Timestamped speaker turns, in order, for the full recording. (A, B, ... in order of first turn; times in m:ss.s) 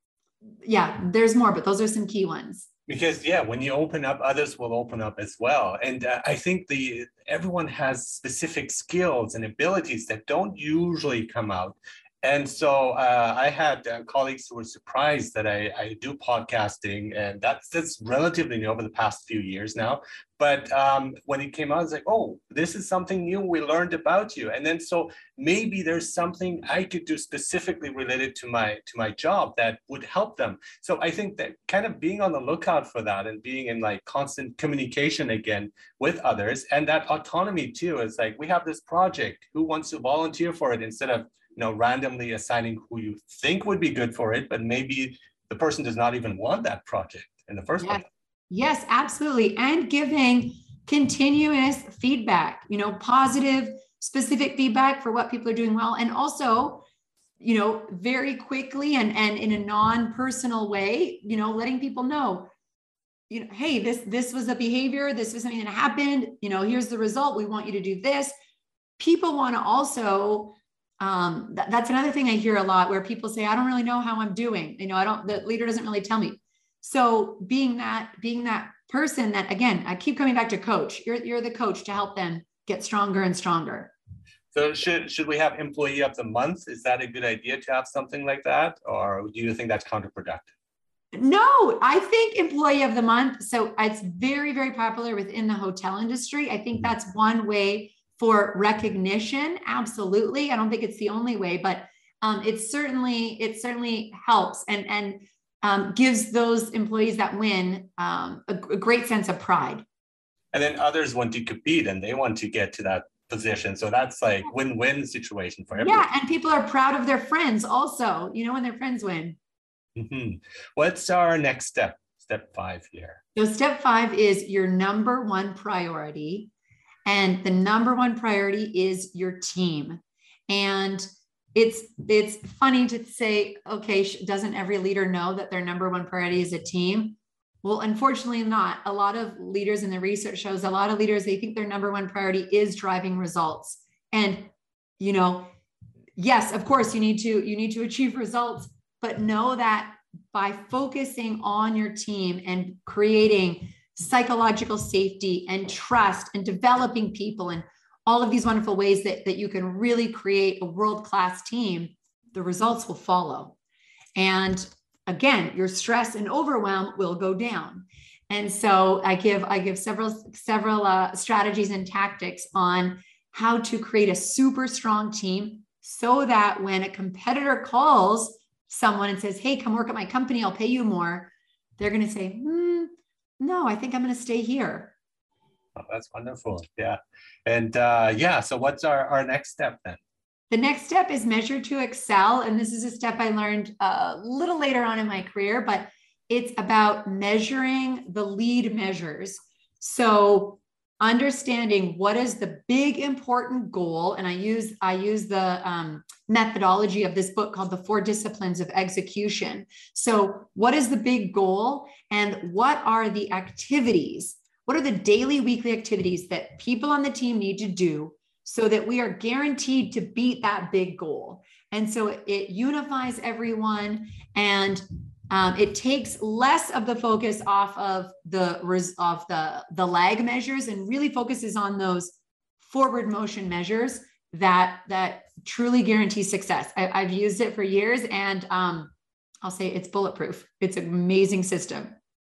0:00.6-0:02.7 A
0:02.9-0:48.0 B
0:47.8-0:56.8 A
0:57.4-1:02.5 A
1:03.3-1:08.3 A
1:09.0-1:23.9 A
1:24.5-1:30.5 B
1:31.1-1:49.8 A
1:50.5-1:56.1 B
1:55.8-1:59.4 A
2:00.0-2:03.2 B
2:03.4-2:06.5 A
2:07.1-2:25.5 A
2:26.2-2:43.6 A
2:44.2-3:05.0 A
3:05.8-3:10.0 B
3:10.5-3:58.9 A
3:59.4-4:01.9 A